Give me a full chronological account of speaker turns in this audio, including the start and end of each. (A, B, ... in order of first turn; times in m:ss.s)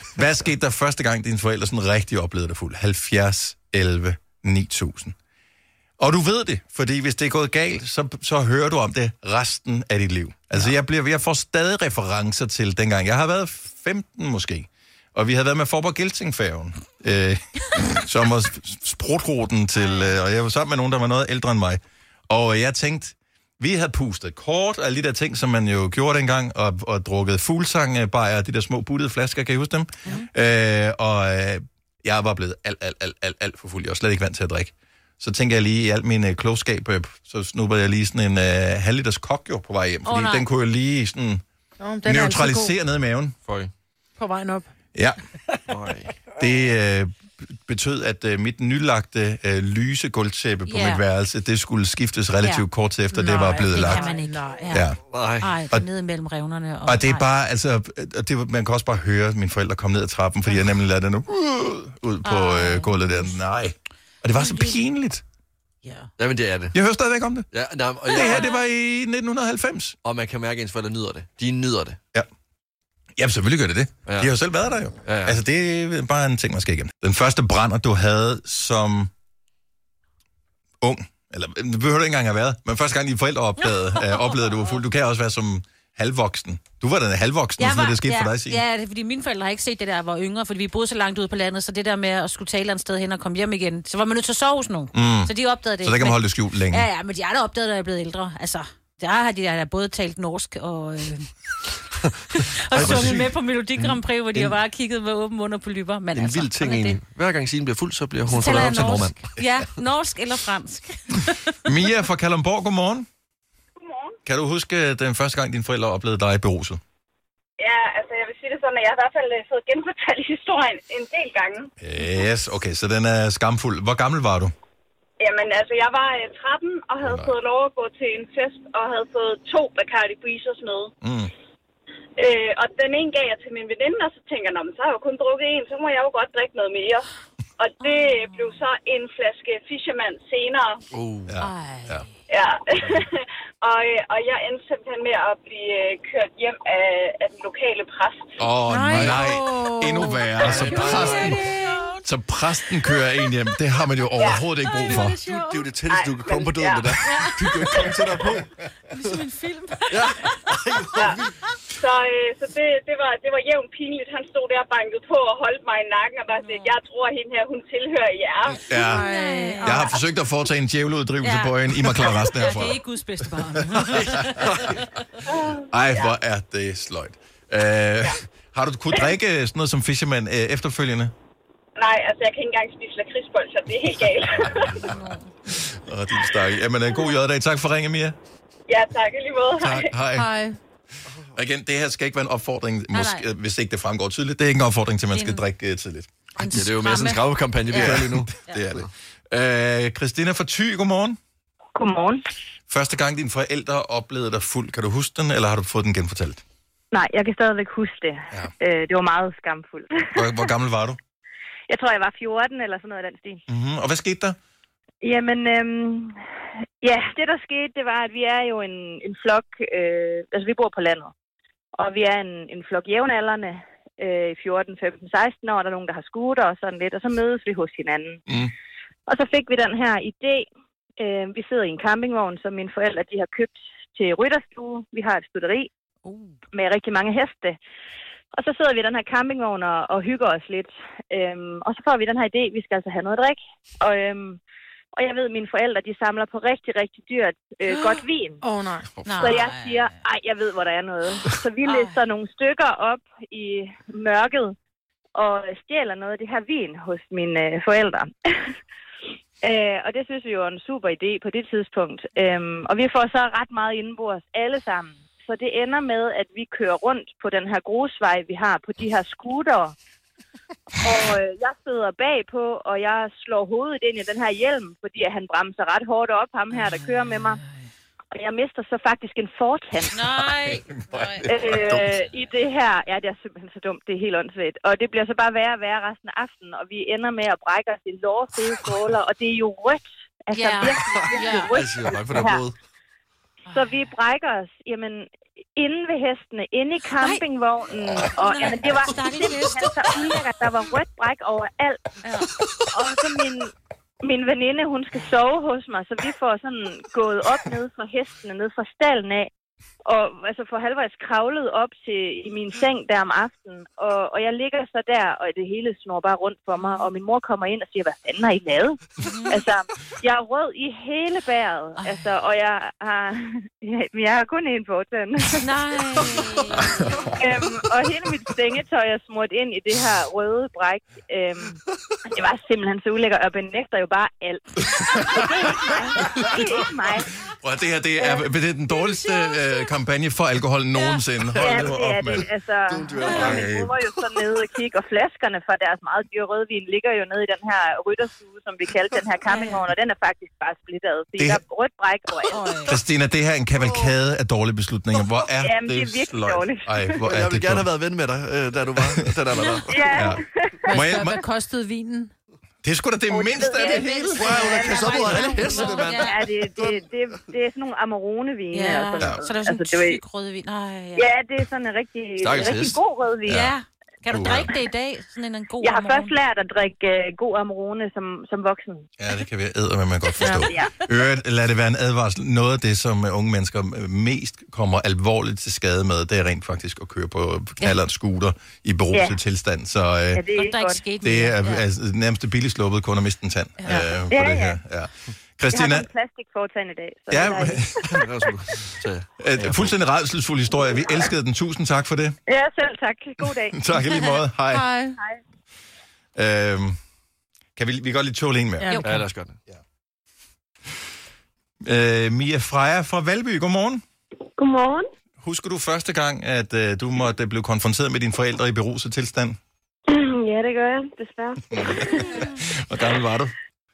0:00.2-0:05.2 A
0:06.0-0:41.4 A
0:19.8-0:20.1 B
0:40.0-0:40.5 B
0:41.8-0:42.8 C
0:42.0-0:43.4 A
0:43.4-0:43.7 D
0:44.2-0:44.7 C
0:44.9-0:45.2 A
0:45.7-0:46.2 D
0:46.4-0:54.1 A
0:50.7-0:51.0 B
0:53.1-0:54.6 C
0:53.7-0:54.9 B
0:54.7-0:55.0 A
0:55.1-0:55.6 D
0:55.4-0:57.3 B
0:56.9-1:05.2 A
1:02.2-1:03.4 B
1:04.4-1:04.8 B
1:05.8-1:06.1 B
1:06.2-1:06.8 D
1:06.7-1:07.5 A
1:07.5-1:08.4 D
1:08.1-1:10.0 A
1:08.1-1:08.6 B
1:10.0-1:12.0 D
1:13.2-1:19.1 A
1:15.0-1:15.4 D
1:20.8-1:28.6 A
1:24.0-1:24.5 B
1:27.6-1:41.3 B
1:34.9-1:36.9 A
1:42.3-1:47.0 B
1:42.7-1:44.5 D
1:42.8-1:43.2 A
1:46.1-1:49.2 D
1:48.3-1:51.6 B
1:51.6-1:53.1 A
1:53.8-1:54.2 E
1:54.2-1:56.8 A
1:57.6-2:01.7 E
2:01.8-2:04.5 A
2:05.2-2:10.9 E
2:07.0-2:07.3 A
2:11.0-2:11.3 A
2:12.2-2:17.1 E
2:17.6-2:20.8 E
2:17.8-2:18.6 B
2:20.9-2:21.4 D
2:21.3-2:22.0 A
2:21.4-2:22.1 B
2:22.3-2:28.4 E
2:28.4-2:31.4 A
2:28.7-2:30.4 C
2:28.9-2:29.2 D
2:30.4-2:31.4 D
2:30.5-2:32.0 B
2:31.2-2:31.8 C
2:32.0-2:35.2 A
2:34.2-2:34.5 E
2:34.8-2:35.5 B
2:35.2-2:38.5 D
2:35.2-2:35.5 C
2:35.9-2:37.0 E
2:37.0-2:37.7 B
2:39.0-2:40.0 B
2:39.9-2:41.3 D
2:41.8-2:48.6 E
2:46.3-2:46.8 B
2:48.7-2:49.1 A
2:48.7-2:49.9 C
2:48.8-2:49.9 B
2:49.6-2:52.8 A
2:51.2-2:54.8 B
2:53.7-2:54.4 A
2:53.9-2:54.8 D
2:55.3-2:56.1 E
2:55.7-3:01.1 A
3:01.8-3:04.8 E
3:04.5-3:04.9 A
3:04.9-3:05.2 B
3:05.5-3:08.2 A
3:08.7-3:09.9 E
3:09.6-3:10.3 A
3:10.1-3:10.6 C
3:11.4-3:16.1 A
3:12.9-3:13.2 B
3:15.1-3:15.4 B
3:16.4-3:18.6 B
3:16.4-3:18.9 D
3:17.7-3:21.2 A
3:21.8-3:22.2 F
3:22.7-3:26.4 A
3:26.9-3:30.5 F
3:30.1-3:31.0 A
3:31.7-3:33.4 F
3:33.5-3:34.4 A
3:35.0-3:36.2 F
3:36.8-3:41.1 F
3:41.8-3:48.2 F
3:49.1-3:50.5 F
3:51.0-3:55.7 F
3:56.5-3:57.6 F
3:58.3-4:04.4 F
4:04.9-4:08.4 F
4:08.4-4:08.9 C
4:09.0-4:09.4 D
4:09.0-4:09.9 B
4:09.2-4:14.5 F
4:11.6-4:12.0 B
4:15.2-4:18.3 F
4:19.4-4:29.8 F
4:30.8-4:37.4 F
4:38.1-4:40.0 F
4:39.9-4:41.3 B
4:40.2-4:41.8 A
4:41.3-4:52.4 F
4:50.3-4:51.6 B
4:50.8-4:52.6 D
4:53.5-4:53.8 B
4:53.5-5:01.8 F
4:57.0-4:57.2 B
4:58.2-5:00.2 B
5:02.0-5:02.3 B
5:02.7-5:09.3 F
5:09.9-5:25.5 F
5:16.6-5:16.9 B
5:19.0-5:19.4 B
5:21.8-5:22.1 B
5:25.4-5:27.1 B
5:27.0-5:31.6 F
5:32.1-5:37.1 F
5:37.4-5:42.3 A
5:38.7-5:39.7 B
5:40.8-5:41.0 B
5:41.4-5:52.5 F
5:41.4-5:41.7 D
5:42.7-5:43.8 D
5:43.0-5:43.4 B
5:43.1-5:43.7 A
5:49.3-5:49.6 B
5:52.3-5:52.8 B
5:52.7-5:57.7 A
5:55.4-5:57.0 F
5:57.0-5:59.9 D
5:59.7-6:00.7 F
5:59.8-6:01.2 A
6:00.7-6:02.1 C
6:02.6-6:05.1 A
6:03.1-6:10.0 F
6:03.6-6:06.2 B
6:04.2-6:06.8 D
6:08.5-6:11.1 B
6:11.0-6:13.5 F
6:12.2-6:12.8 D
6:13.3-6:13.5 A
6:13.3-6:16.1 B
6:14.1-6:14.5 A
6:15.6-6:18.9 F
6:19.0-6:30.2 A
6:20.3-6:20.8 F
6:30.1-6:30.8 F
6:30.4-6:31.6 B
6:31.0-6:35.9 A
6:33.6-6:33.9 B
6:34.1-6:34.6 F
6:35.5-6:38.0 F
6:37.1-6:37.8 A
6:37.9-6:39.7 D
6:39.2-6:42.2 A
6:42.3-6:43.6 F
6:43.5-6:44.7 A
6:44.5-6:45.0 C
6:46.2-6:46.8 A
6:47.6-6:48.8 A
6:48.6-6:48.9 C
6:48.8-6:49.4 D
6:51.6-6:53.8 A
6:54.4-6:54.9 G
6:55.2-6:59.4 A
6:59.9-7:02.3 G
7:01.6-7:03.3 A